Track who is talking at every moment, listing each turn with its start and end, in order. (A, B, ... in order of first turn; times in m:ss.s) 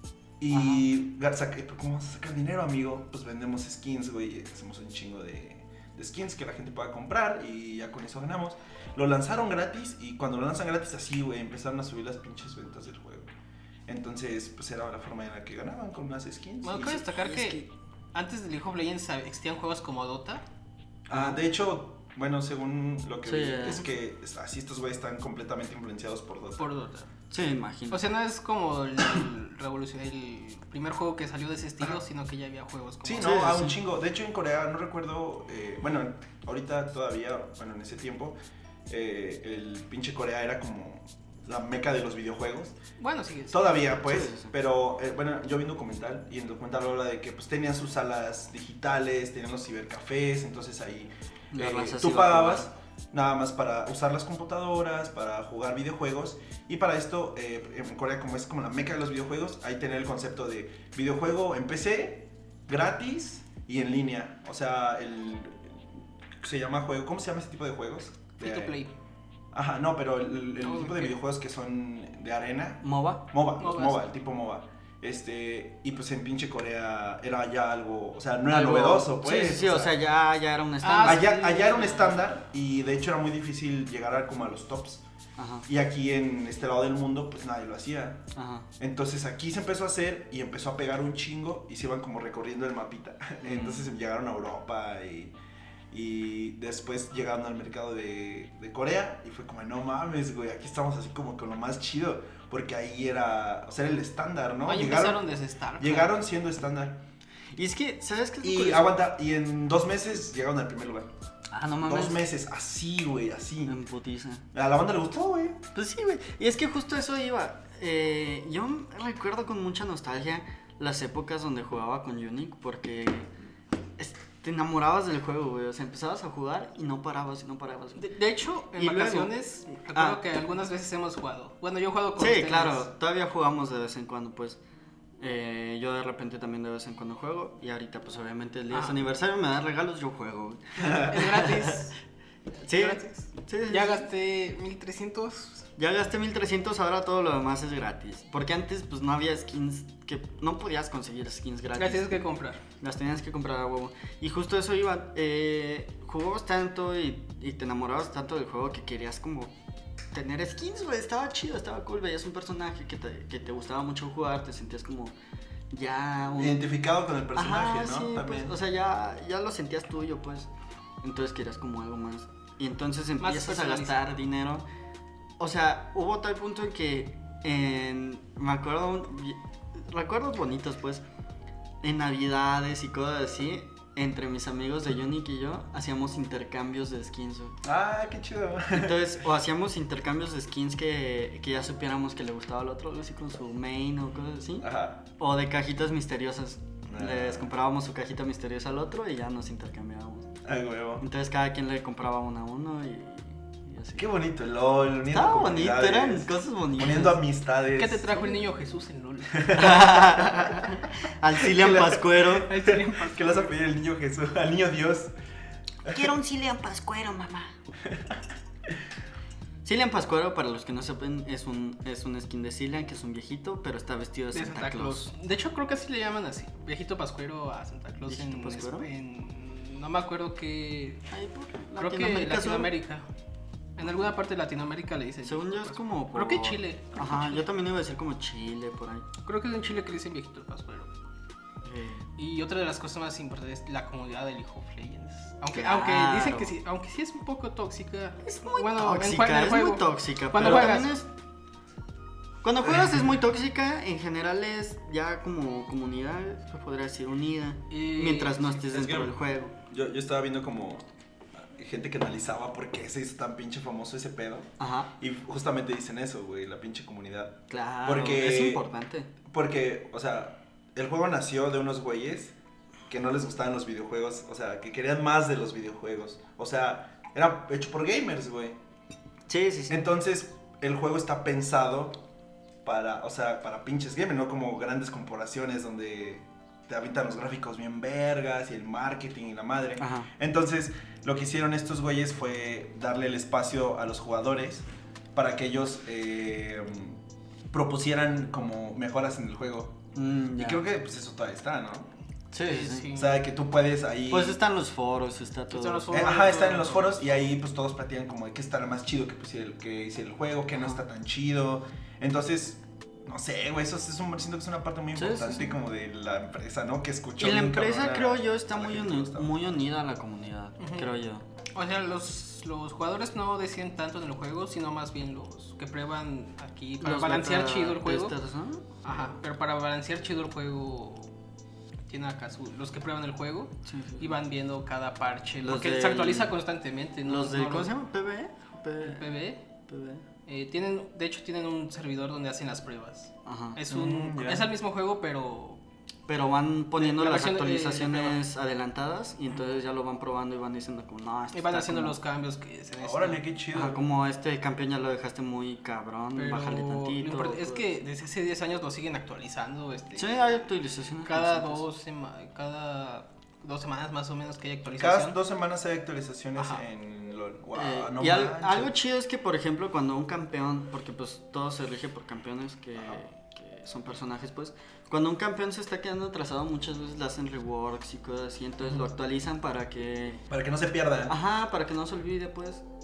0:00.4-0:13.3 A
0:00.5-0:00.9 B
0:13.9-0:17.1 A
0:16.6-0:20.5 C
0:17.2-0:17.7 B
0:21.1-0:26.7 A
0:21.1-0:21.4 B
0:23.2-0:23.8 B
0:26.6-0:27.1 C
0:27.3-0:28.0 B
0:27.9-0:33.5 C
0:33.0-0:38.4 A
0:33.2-0:33.8 B
0:38.9-0:42.8 A
0:43.0-0:43.9 C
0:43.5-1:05.8 A
0:43.9-0:44.5 B
0:51.5-0:52.7 B
1:06.4-1:08.8 A
1:08.4-1:09.0 C
1:09.5-1:20.0 A
1:10.6-1:11.2 C
1:12.8-1:13.2 B
1:13.6-1:14.1 C
1:18.5-1:21.3 B
1:20.8-1:22.3 C
1:21.0-1:25.0 A
1:25.4-1:25.7 B
1:25.7-1:28.2 A
1:28.4-1:28.7 B
1:28.8-1:35.3 A
1:33.4-1:33.9 B
1:35.9-1:45.2 A
1:44.6-1:46.2 C
1:45.8-1:47.0 A
1:47.5-1:48.9 B
1:48.4-1:51.1 A
1:51.5-1:52.2 B
1:51.8-1:53.8 A
1:53.7-1:54.4 B
1:54.5-1:55.6 A
1:55.7-2:03.3 B
2:04.0-2:08.1 B
2:08.0-2:12.9 C
2:08.8-2:09.3 B
2:09.9-2:10.2 B
2:12.2-2:14.6 B
2:15.2-2:21.9 B
2:18.7-2:19.0 C
2:20.8-2:21.2 A
2:20.8-2:21.9 C
2:22.6-2:24.1 B
2:22.7-2:25.7 C
2:25.8-2:32.2 B
2:31.8-2:32.6 C
2:32.8-2:39.5 B
2:40.1-2:45.2 B
2:45.7-2:46.6 B
2:46.4-2:48.5 A
2:47.4-2:50.5 B
2:51.0-2:54.7 B
2:53.2-2:54.0 C
2:55.4-3:01.0 B
3:01.8-3:07.6 B
3:07.6-3:09.2 A
3:08.7-3:20.3 B
3:14.6-3:15.0 A
3:16.9-3:17.5 A
3:20.4-3:21.0 A
3:21.0-3:24.1 B
3:24.0-3:28.2 A
3:25.1-3:27.2 B
3:27.8-3:29.9 C
3:29.3-3:30.2 A
3:29.5-3:32.5 B
3:31.4-3:35.1 A
3:32.4-3:33.5 C
3:35.9-3:37.5 B
3:39.6-3:45.1 B
3:44.3-3:51.0 C
3:48.0-3:48.9 B
3:51.1-3:52.7 B
3:51.8-3:53.0 C
3:53.8-3:57.5 C
3:55.2-3:59.1 B
3:59.2-4:00.9 C
4:01.6-4:02.1 B
4:02.2-4:10.9 C
4:05.5-4:06.5 B
4:08.2-4:11.1 B
4:12.4-4:19.5 B
4:17.7-4:18.7 C
4:18.7-4:19.2 A
4:19.7-4:20.9 A
4:21.4-4:28.7 A
4:24.6-4:24.9 B
4:27.5-4:29.1 B
4:29.3-4:32.3 A
4:32.9-4:38.6 A
4:39.3-4:39.9 B
4:39.7-4:42.0 A
4:42.6-4:57.0 A
4:49.8-4:50.1 B
4:57.5-4:59.8 A
5:00.0-5:00.6 B
5:00.4-5:01.9 A
5:02.3-5:02.9 B
5:02.4-5:03.2 C
5:02.9-5:04.4 A
5:04.1-5:06.2 B
5:05.5-5:07.2 C
5:05.9-5:19.4 A
5:15.0-5:15.6 B
5:17.2-5:21.2 B
5:20.6-5:20.9 C
5:21.5-5:28.2 C
5:26.8-5:28.8 B
5:28.8-5:31.1 C
5:31.9-5:37.7 C
5:33.6-5:34.2 B
5:35.4-5:36.4 B
5:37.0-5:40.0 B
5:38.8-5:39.4 C
5:40.2-5:45.6 C
5:43.2-5:43.6 B
5:43.7-5:44.5 A
5:46.1-5:52.0 B
5:46.8-5:48.2 C
5:51.3-5:53.2 C
5:52.8-5:53.8 A
5:53.5-5:57.7 B
5:56.2-6:00.3 C
6:00.0-6:01.6 B
6:01.0-6:05.2 C
6:04.8-6:08.7 A
6:06.4-6:06.6 C
6:07.5-6:20.2 B
6:20.3-6:21.2 A
6:21.1-6:22.6 B